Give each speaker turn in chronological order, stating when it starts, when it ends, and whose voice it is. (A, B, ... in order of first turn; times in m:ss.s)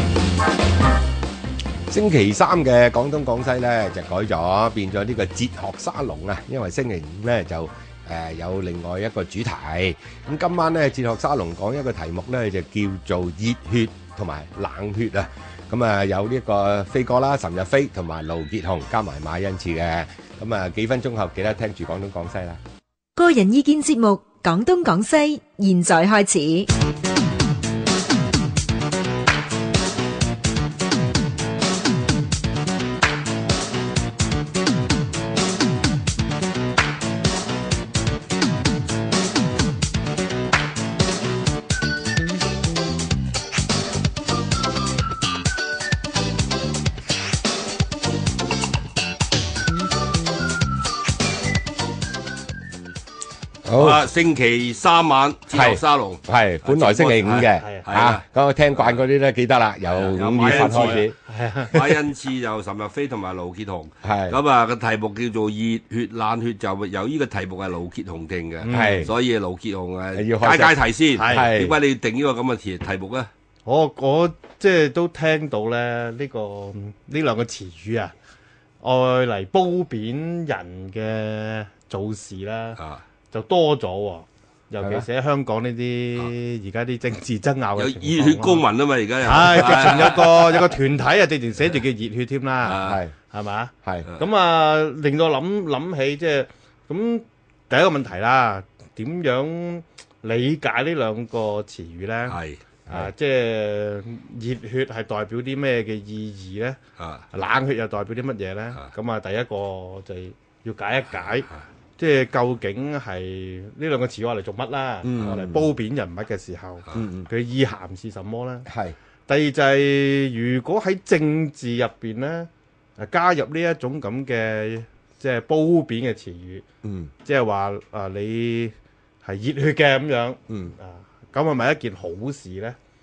0:01.9-0:22.6 A
0:23.2-0:26.7 B
0:53.6-0:54.1 A
0:53.8-0:59.0 C
0:55.5-1:01.2 A
0:59.8-1:01.0 C
1:00.4-1:01.8 D
1:01.7-1:13.3 C
1:04.0-1:04.4 A
1:08.6-1:09.1 D
1:08.7-1:09.1 A
1:10.1-1:11.8 A
1:11.1-1:11.5 D
1:13.6-1:18.1 D
1:18.8-1:22.8 D
1:22.8-1:23.0 C
1:23.3-1:28.6 D
1:24.8-1:25.0 A
1:27.8-1:30.6 C
1:29.2-1:32.8 D
1:32.6-1:33.0 C
1:32.8-1:33.1 A
1:33.3-1:46.8 D
1:42.3-1:42.6 C
1:47.0-1:47.2 C
1:47.3-1:58.7 D
1:55.0-1:55.7 A
1:56.9-1:57.3 A
1:58.6-1:59.0 A
1:59.3-2:06.6 D
2:06.8-2:07.1 A
2:07.2-2:12.8 D
2:10.5-2:10.7 A